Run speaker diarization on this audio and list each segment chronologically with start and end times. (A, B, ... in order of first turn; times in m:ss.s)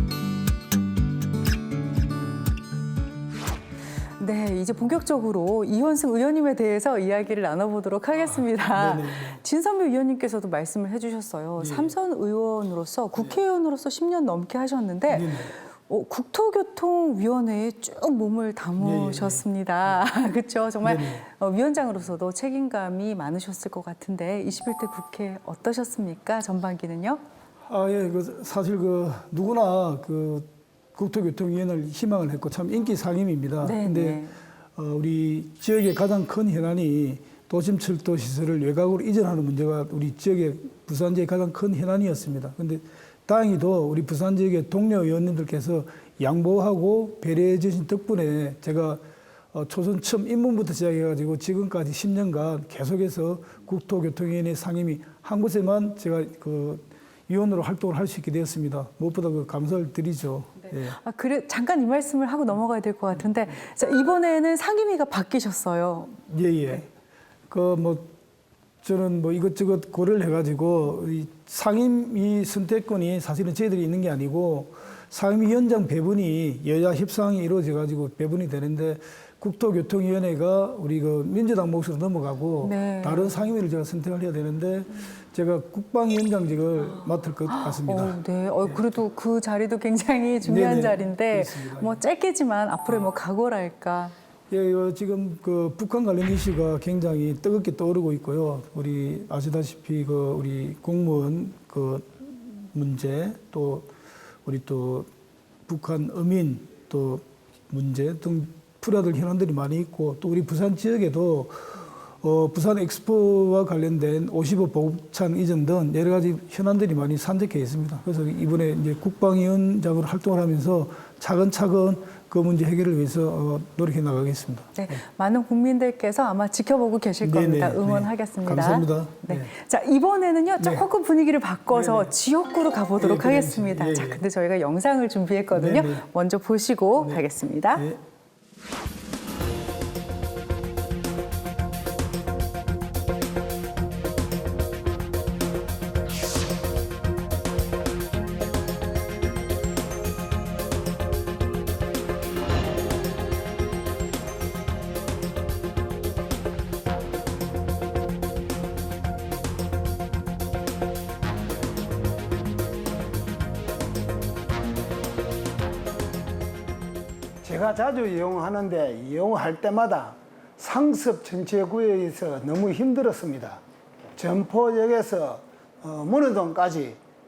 0:04.2-0:27.2 A
0:08.8-0:09.4 B
0:11.6-0:11.9 B
0:15.1-0:15.5 B
0:18.8-0:19.4 B
0:20.8-0:21.2 B
0:27.7-0:34.2 B
0:33.6-0:34.4 A
0:34.8-1:01.0 B
1:00.9-1:06.2 A
1:06.2-1:06.9 B
1:07.5-1:08.1 B
1:08.8-1:28.8 B
1:22.6-1:23.3 A
1:27.5-1:34.1 A
1:30.4-1:32.0 B
1:34.5-1:43.9 B
1:44.5-1:45.1 B
1:45.7-2:05.0 B
2:04.7-2:17.8 A
2:07.2-2:09.5 B
2:10.6-2:10.8 B
2:11.7-2:12.1 B
2:13.0-2:14.2 B
2:15.5-2:16.1 B
2:47.4-2:53.6 C
2:54.2-2:57.0 C